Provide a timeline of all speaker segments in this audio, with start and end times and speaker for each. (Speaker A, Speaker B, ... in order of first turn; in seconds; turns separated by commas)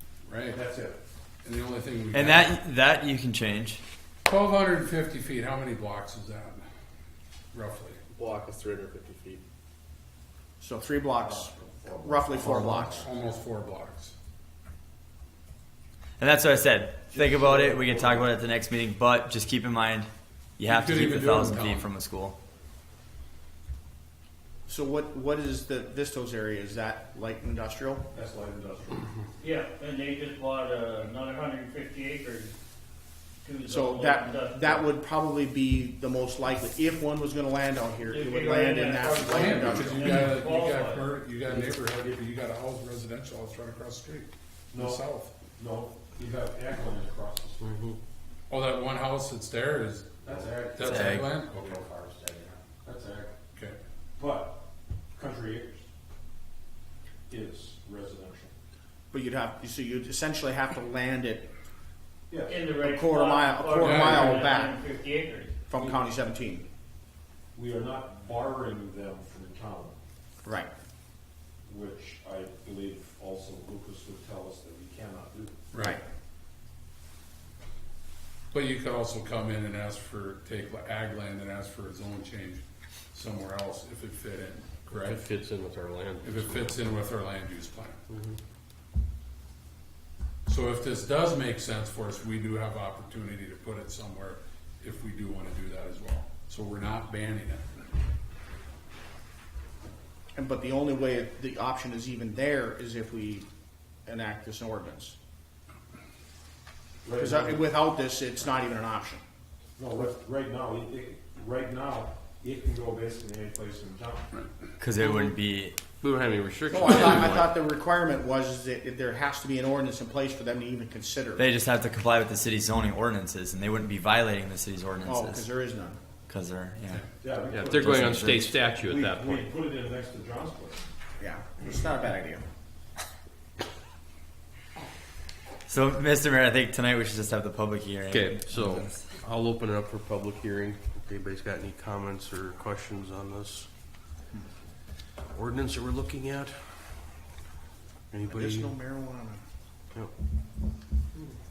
Speaker A: 0.3-0.6, Speaker B: 0.5-1.0, Speaker A: 1.4-2.5, Speaker C: 2.1-3.8, Speaker A: 4.3-6.7, Speaker A: 7.5-8.0, Speaker D: 8.1-9.4, Speaker E: 10.6-13.1, Speaker B: 11.2-13.1, Speaker A: 12.4-14.1, Speaker C: 16.2-22.4, Speaker B: 17.1-18.3, Speaker A: 20.7-21.9, Speaker E: 24.7-28.1, Speaker B: 28.1-29.1, Speaker F: 29.4-32.5, Speaker F: 33.4-34.9, Speaker E: 33.7-40.3, Speaker F: 38.0-41.1, Speaker A: 39.2-45.4, Speaker B: 44.7-45.0, Speaker B: 45.6-47.6, Speaker D: 47.6-48.0, Speaker A: 48.5-51.8, Speaker B: 50.2-53.3, Speaker D: 50.8-51.3, Speaker B: 54.2-54.6, Speaker B: 55.1-55.9, Speaker B: 57.3-58.5, Speaker E: 59.1-61.5, Speaker B: 62.3-62.8, Speaker F: 62.5-65.6, Speaker E: 62.8-64.8, Speaker A: 63.8-64.4, Speaker E: 65.7-66.7, Speaker B: 65.7-66.1, Speaker B: 67.5-70.0, Speaker E: 70.4-70.7, Speaker B: 71.7-75.6, Speaker A: 75.7-76.0, Speaker E: 75.8-76.0, Speaker A: 78.5-85.2, Speaker D: 84.9-86.8, Speaker A: 86.2-88.0, Speaker D: 88.1-88.4, Speaker A: 90.5-97.7, Speaker E: 100.3-103.5, Speaker E: 104.1-105.2, Speaker B: 107.0-107.7, Speaker E: 107.2-109.2, Speaker B: 109.8-114.3, Speaker C: 114.8-115.8, Speaker D: 116.0-117.5, Speaker E: 116.7-121.5, Speaker C: 121.4-125.5, Speaker E: 125.0-126.0, Speaker C: 126.3-127.0, Speaker B: 127.2-130.8, Speaker D: 127.5-129.5, Speaker C: 127.7-128.5, Speaker E: 131.2-132.4, Speaker C: 135.7-139.0, Speaker D: 138.1-143.7, Speaker D: 145.3-146.8, Speaker D: 148.1-148.7, Speaker E: 148.2-149.4